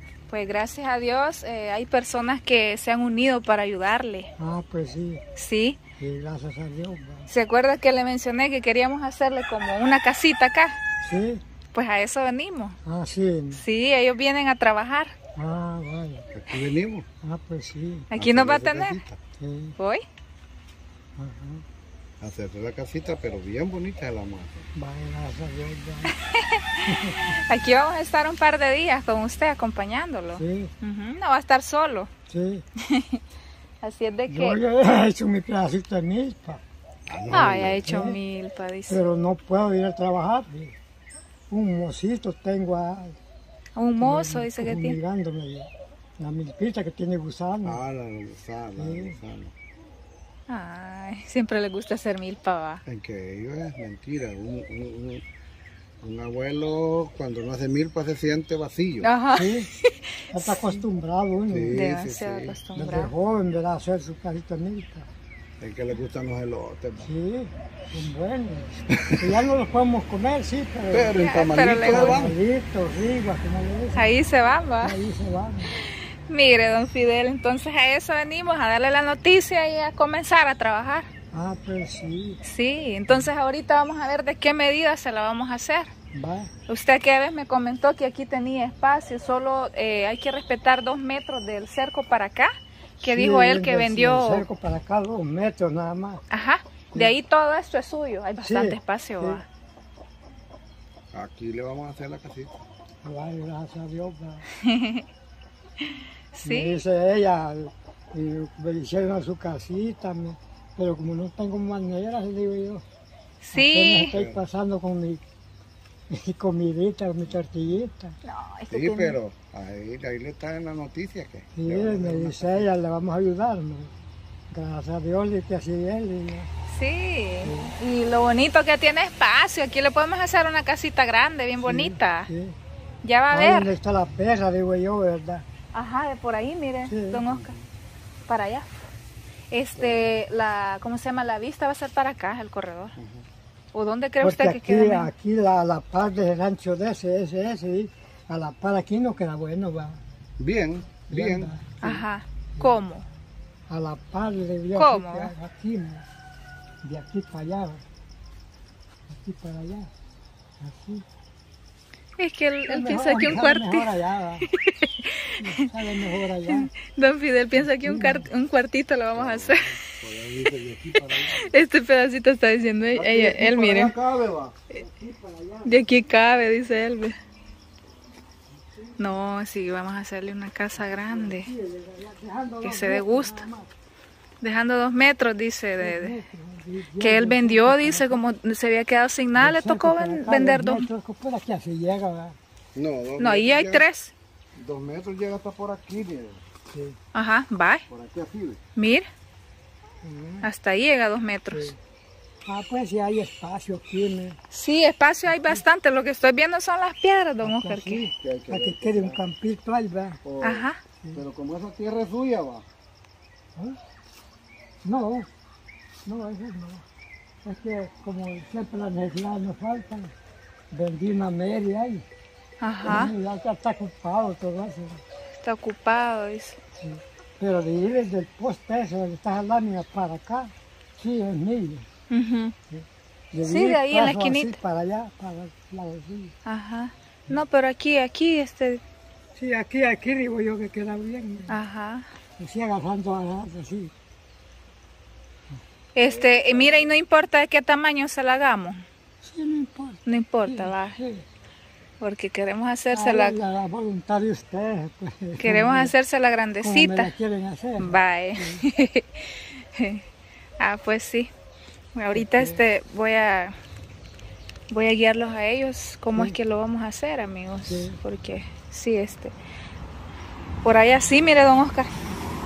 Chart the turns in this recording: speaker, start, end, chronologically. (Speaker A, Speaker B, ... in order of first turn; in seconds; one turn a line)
Speaker A: 0.3-4.3
Speaker B: 4.4-5.2
Speaker A: 5.4-5.8
Speaker B: 6.0-7.3
Speaker A: 7.3-10.8
Speaker B: 11.0-11.4
Speaker A: 11.7-12.8
Speaker B: 12.8-13.6
Speaker A: 13.6-15.2
Speaker B: 15.4-16.3
Speaker C: 16.3-17.1
Speaker B: 17.2-18.1
Speaker A: 18.1-19.0
Speaker C: 18.1-19.2
Speaker B: 19.4-19.8
Speaker A: 19.8-20.1
Speaker B: 21.2-21.6
Speaker C: 22.2-24.7
Speaker B: 24.8-26.1
Speaker A: 26.1-32.1
Speaker B: 26.9-27.3
Speaker B: 30.3-30.7
Speaker B: 32.3-32.6
Speaker A: 32.9-33.2
Speaker A: 33.8-34.6
Speaker B: 34.3-36.6
Speaker C: 37.1-37.9
Speaker A: 37.3-39.0
Speaker B: 37.8-38.2
Speaker B: 38.9-40.8
Speaker B: 41.5-43.2
Speaker A: 43.8-45.0
Speaker B: 44.0-47.8
Speaker C: 47.6-49.5
Speaker B: 48.8-49.2
Speaker A: 50.5-52.8
Speaker C: 52.9-55.2
Speaker C: 56.0-59.1
Speaker A: 59.0-60.8
Speaker B: 59.3-59.7
Speaker B: 60.3-61.9
Speaker C: 61.5-62.6
Speaker A: 61.7-63.1
Speaker B: 62.8-65.1
Speaker C: 65.6-67.1
Speaker B: 67.0-74.1
Speaker C: 70.9-72.3
Speaker A: 71.2-72.3
Speaker A: 74.0-75.0
Speaker B: 74.8-75.8
Speaker A: 75.8-81.1
Speaker B: 81.3-82.4
Speaker A: 82.4-85.9
Speaker B: 86.1-86.5
Speaker A: 86.7-94.5
Speaker B: 93.0-96.2
Speaker A: 96.3-99.5
Speaker B: 98.4-99.4
Speaker C: 101.1-102.6
Speaker B: 103.0-104.4
Speaker A: 104.6-105.0
Speaker A: 106.4-106.8
Speaker B: 106.5-112.8
Speaker A: 113.4-114.2
Speaker B: 113.5-115.2
Speaker C: 114.1-114.4
Speaker B: 116.1-118.2
Speaker A: 118.2-119.2
Speaker C: 118.7-122.7
Speaker B: 121.5-124.0
Speaker B: 124.5-126.5
Speaker A: 126.7-132.3
Speaker B: 127.4-127.7
Speaker B: 131.6-132.6
Speaker A: 133.1-133.7
Speaker B: 133.3-135.5
Speaker A: 135.7-137.6
Speaker B: 136.9-137.2
Speaker C: 137.3-137.6
Speaker A: 138.3-138.7
Speaker A: 139.5-142.9
Speaker C: 139.8-140.1
Speaker C: 143.0-143.2
Speaker A: 143.7-145.1
Speaker B: 144.2-150.0
Speaker C: 150.4-151.5
Speaker B: 151.1-152.0
Speaker A: 151.8-153.1
Speaker B: 153.7-156.1
Speaker A: 154.8-155.3
Speaker B: 156.8-157.8
Speaker B: 159.1-159.9
Speaker B: 160.6-161.1
Speaker A: 162.2-163.9
Speaker B: 162.7-164.5
Speaker A: 164.5-165.7
Speaker B: 165.4-166.7
Speaker A: 166.5-169.7
Speaker B: 167.8-168.3
Speaker C: 169.1-171.6
Speaker A: 171.5-173.9
Speaker C: 172.9-174.6
Speaker B: 174.7-175.8
Speaker A: 175.7-177.2
Speaker A: 179.0-181.5
Speaker B: 180.8-183.7
Speaker A: 182.6-183.4
Speaker A: 184.4-186.2
Speaker B: 185.8-188.2
Speaker A: 187.0-190.9
Speaker B: 189.4-192.4
Speaker C: 192.8-193.9
Speaker A: 193.2-194.1
Speaker C: 194.6-196.4
Speaker A: 197.1-197.8
Speaker C: 197.9-198.6
Speaker A: 198.8-199.1
Speaker B: 200.0-200.5
Speaker A: 200.4-201.7
Speaker B: 201.5-201.8
Speaker B: 202.4-204.4
Speaker A: 204.5-208.0
Speaker B: 207.4-210.2
Speaker C: 208.1-209.2
Speaker C: 210.2-212.7
Speaker A: 210.4-210.8
Speaker B: 214.8-215.3
Speaker B: 216.1-216.8
Speaker B: 217.4-220.1
Speaker B: 220.7-222.0
Speaker A: 222.6-223.1
Speaker B: 222.8-225.0
Speaker A: 225.4-226.6
Speaker B: 226.8-231.9
Speaker A: 232.1-232.6
Speaker B: 232.7-236.3
Speaker A: 233.5-234.6
Speaker A: 236.4-238.8
Speaker B: 239.4-241.5
Speaker A: 241.5-242.1
Speaker B: 242.4-243.9
Speaker A: 245.9-248.8
Speaker C: 246.0-247.0
Speaker B: 249.2-251.2
Speaker A: 250.1-251.0
Speaker A: 252.0-253.4
Speaker B: 252.9-255.9
Speaker A: 255.4-257.1
Speaker B: 256.6-258.7
Speaker A: 257.8-260.0
Speaker A: 260.6-261.3
Speaker A: 262.0-263.6
Speaker B: 262.1-262.6
Speaker A: 264.7-269.3
Speaker B: 267.6-268.0
Speaker A: 270.6-271.9